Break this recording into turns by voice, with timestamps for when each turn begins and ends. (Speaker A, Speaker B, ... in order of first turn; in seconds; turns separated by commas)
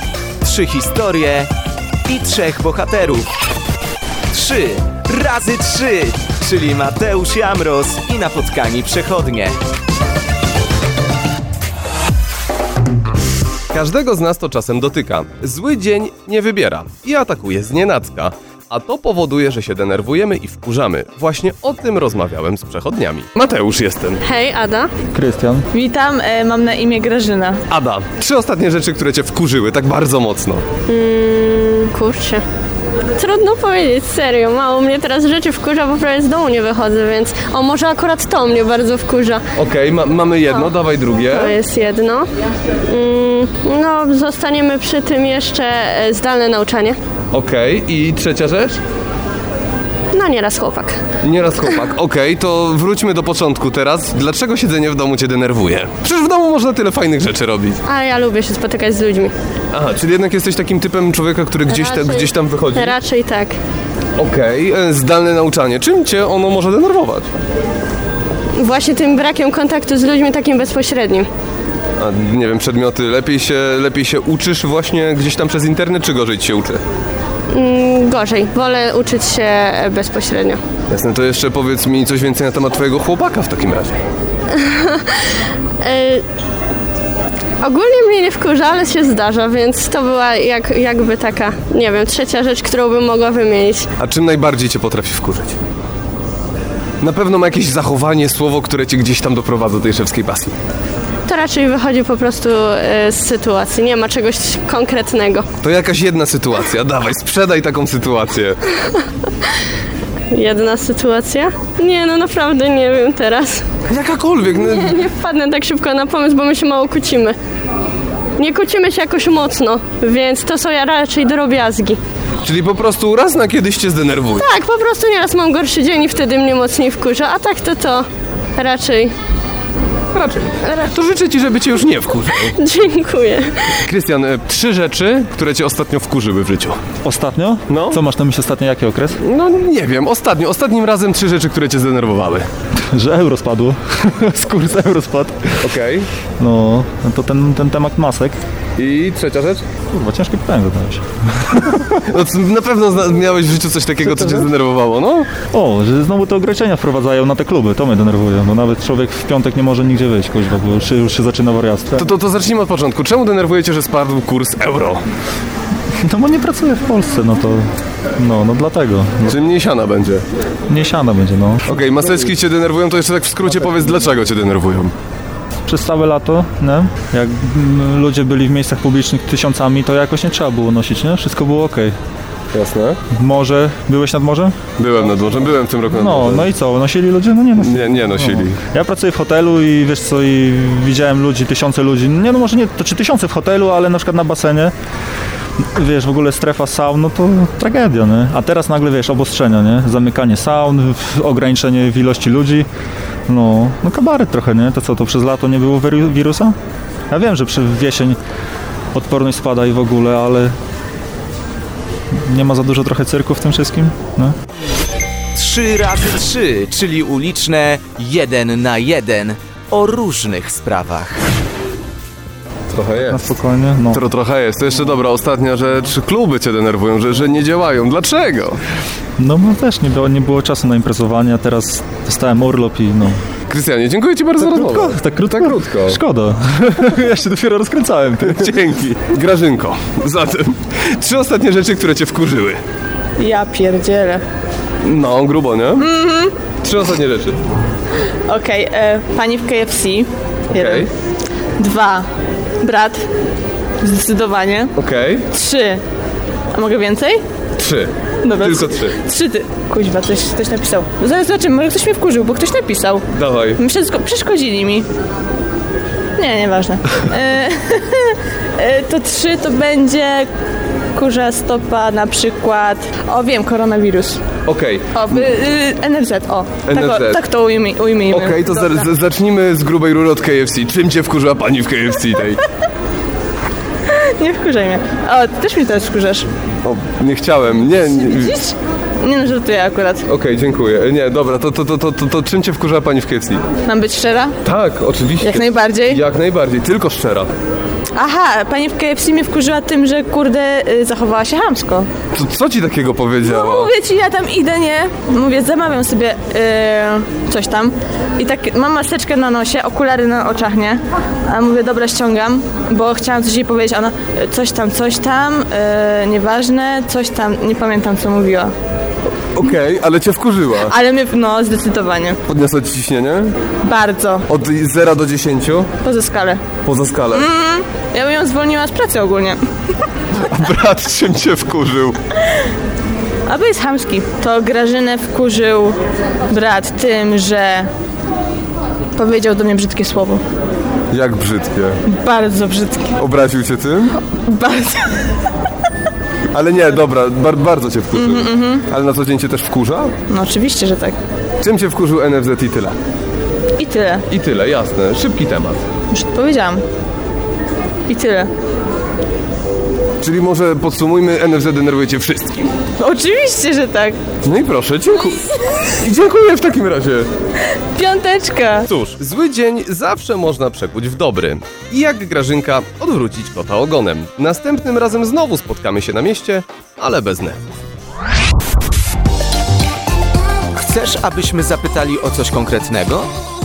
Speaker A: 0.4-1.5, Speaker A: 2.0-3.3, Speaker A: 4.3-9.5, Speaker B: 13.7-24.2, Speaker C: 24.2-24.9, Speaker D: 25.1-25.7, Speaker E: 25.7-27.6, Speaker B: 27.7-30.6, Speaker C: 30.9-32.4, Speaker C: 33.1-39.4, Speaker B: 39.5-41.5, Speaker C: 41.3-42.3, Speaker C: 42.9-47.0, Speaker B: 47.3-48.8, Speaker C: 50.1-51.0, Speaker B: 51.2-57.8, Speaker C: 57.9-59.3, Speaker B: 59.7-63.0, Speaker C: 61.7-63.6, Speaker B: 64.2-67.3, Speaker C: 68.5-71.3, Speaker B: 72.0-76.8, Speaker C: 77.5-80.6, Speaker B: 80.9-84.0, Speaker C: 84.5-86.2, Speaker C: 87.6-93.9, Speaker B: 94.0-95.6, Speaker B: 97.0-100.5, Speaker C: 101.2-105.5, Speaker B: 105.6-108.6, Speaker C: 110.3-113.7, Speaker B: 113.9-114.9, Speaker C: 114.5-117.3, Speaker C: 118.4-122.0, Speaker B: 122.4-124.5, Speaker C: 124.4-129.1, Speaker B: 130.1-132.5, Speaker C: 130.6-130.9, Speaker C: 132.5-133.8, Speaker B: 133.8-136.8, Speaker D: 137.0-139.2, Speaker B: 137.7-138.0, Speaker B: 139.2-142.5, Speaker D: 142.9-145.6, Speaker B: 145.6-146.1, Speaker D: 146.4-148.4, Speaker B: 148.8-149.6, Speaker D: 149.9-151.9, Speaker B: 151.9-155.3, Speaker D: 154.0-154.5, Speaker D: 155.5-162.1, Speaker B: 161.9-165.0, Speaker D: 166.0-169.3, Speaker B: 169.2-170.2, Speaker D: 170.7-171.6, Speaker B: 171.7-174.9, Speaker D: 175.7-181.9, Speaker B: 182.5-183.0, Speaker D: 183.1-184.6, Speaker B: 184.8-186.5, Speaker D: 185.9-194.7, Speaker B: 187.6-188.6, Speaker D: 195.6-202.7, Speaker D: 203.3-206.6, Speaker D: 207.1-208.2, Speaker D: 208.9-210.5, Speaker D: 212.2-214.3, Speaker A: 215.3-221.2, Speaker B: 222.7-223.2, Speaker D: 223.0-224.0, Speaker B: 223.9-228.6, Speaker D: 229.2-233.2, Speaker B: 233.5-236.0, Speaker D: 234.4-238.5, Speaker B: 238.2-242.6, Speaker E: 243.2-244.2, Speaker B: 244.8-245.8, Speaker E: 245.8-246.4, Speaker B: 246.5-247.4, Speaker E: 248.3-250.8, Speaker B: 250.5-250.9, Speaker E: 251.6-252.1, Speaker E: 252.6-253.0, Speaker E: 253.8-254.7, Speaker B: 254.8-255.3, Speaker E: 255.3-255.8, Speaker E: 256.5-257.2, Speaker B: 257.6-259.0, Speaker E: 258.2-263.0, Speaker B: 263.1-263.6, Speaker E: 263.6-264.9, Speaker E: 266.2-270.3, Speaker E: 270.9-274.2, Speaker B: 274.4-275.2, Speaker E: 274.9-278.9, Speaker B: 276.6-277.2, Speaker B: 278.1-282.4, Speaker E: 283.9-286.3, Speaker B: 286.6-288.3, Speaker E: 288.2-290.0, Speaker B: 290.1-293.5, Speaker E: 293.6-294.4, Speaker B: 294.4-297.3, Speaker E: 295.2-296.0, Speaker E: 297.9-301.9, Speaker B: 302.1-303.7, Speaker E: 303.2-318.5, Speaker B: 319.4-320.7, Speaker E: 320.7-322.2, Speaker B: 322.3-323.4, Speaker E: 323.6-324.2, Speaker B: 324.3-325.7, Speaker E: 325.8-326.5, Speaker B: 326.5-327.2, Speaker E: 327.1-329.4, Speaker B: 330.1-332.0, Speaker E: 333.3-335.8, Speaker E: 336.3-337.7, Speaker E: 338.9-340.2, Speaker B: 340.9-341.8, Speaker E: 341.9-342.9, Speaker B: 343.0-343.9, Speaker E: 344.0-345.1, Speaker B: 346.3-350.0, Speaker E: 347.9-348.6, Speaker E: 350.1-351.0, Speaker B: 351.4-352.7, Speaker E: 353.6-354.0, Speaker B: 354.1-355.6, Speaker E: 355.9-356.6, Speaker E: 357.9-358.3, Speaker B: 360.0-362.4, Speaker E: 362.8-364.0, Speaker B: 364.2-367.1, Speaker E: 367.7-368.6, Speaker B: 368.7-377.4, Speaker A: 380.5-383.1